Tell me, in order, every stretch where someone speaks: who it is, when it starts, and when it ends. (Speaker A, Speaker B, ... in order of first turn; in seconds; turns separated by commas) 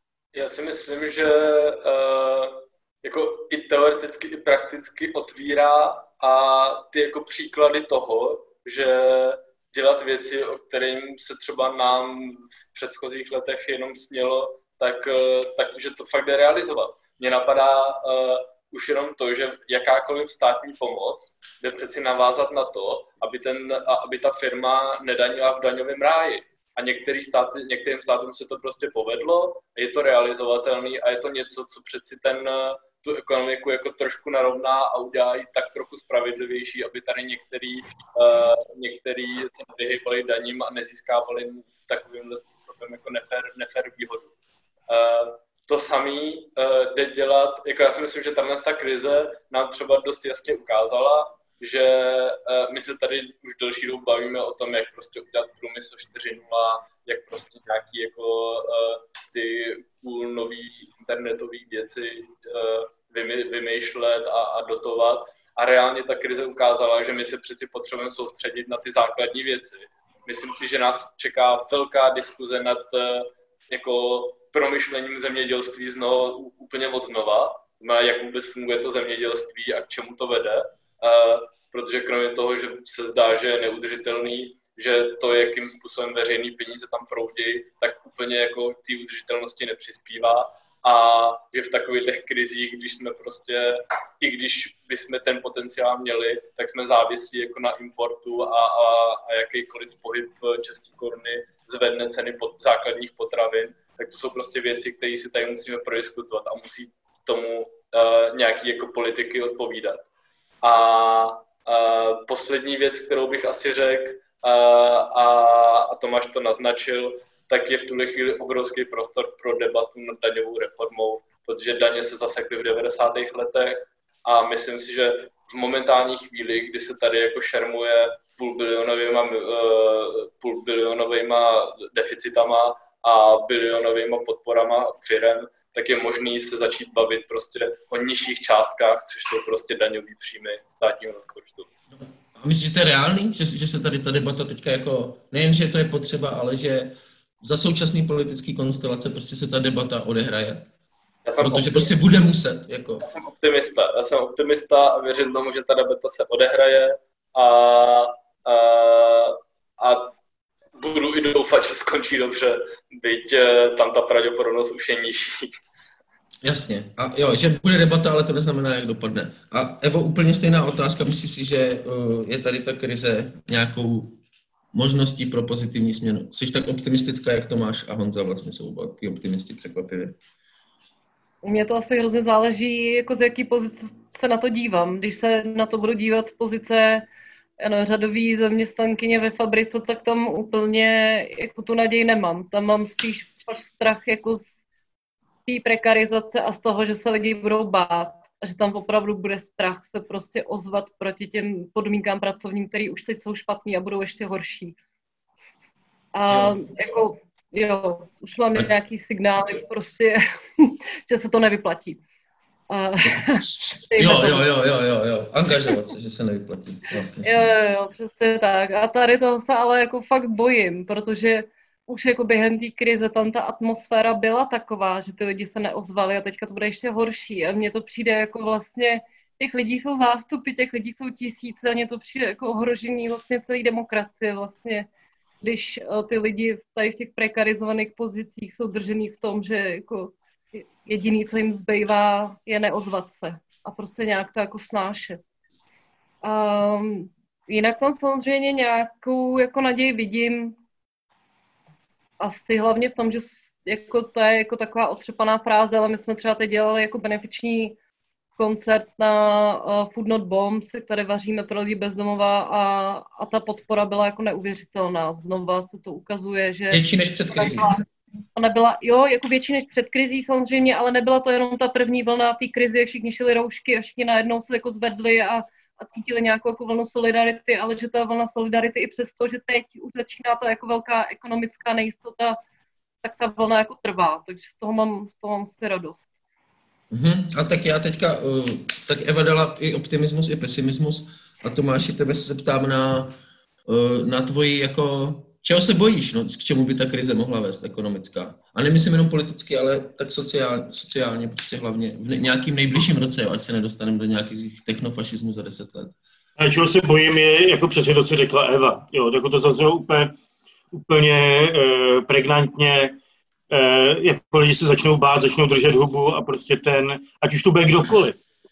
Speaker A: 0.3-44.3, Speaker A: 44.9-110.0, Speaker A: 110.6-141.7, Speaker B: 142.3-150.7, Speaker A: 151.2-151.9, Speaker B: 151.4-153.0, Speaker A: 153.0-160.1, Speaker A: 160.8-165.5, Speaker B: 166.4-174.2, Speaker B: 174.7-180.2, Speaker C: 181.4-187.1, Speaker C: 187.6-194.5, Speaker C: 195.4-204.8, Speaker C: 206.1-212.0, Speaker B: 206.3-206.6, Speaker C: 212.7-214.4, Speaker B: 213.1-217.5, Speaker C: 217.2-234.9, Speaker C: 235.4-245.2, Speaker C: 246.2-250.5, Speaker C: 252.2-257.8, Speaker C: 258.4-267.8, Speaker B: 266.7-267.7, Speaker C: 268.3-282.4, Speaker C: 283.0-286.1, Speaker B: 286.9-293.1, Speaker B: 293.7-305.9, Speaker D: 306.4-310.1, Speaker D: 310.7-313.0, Speaker D: 313.5-318.2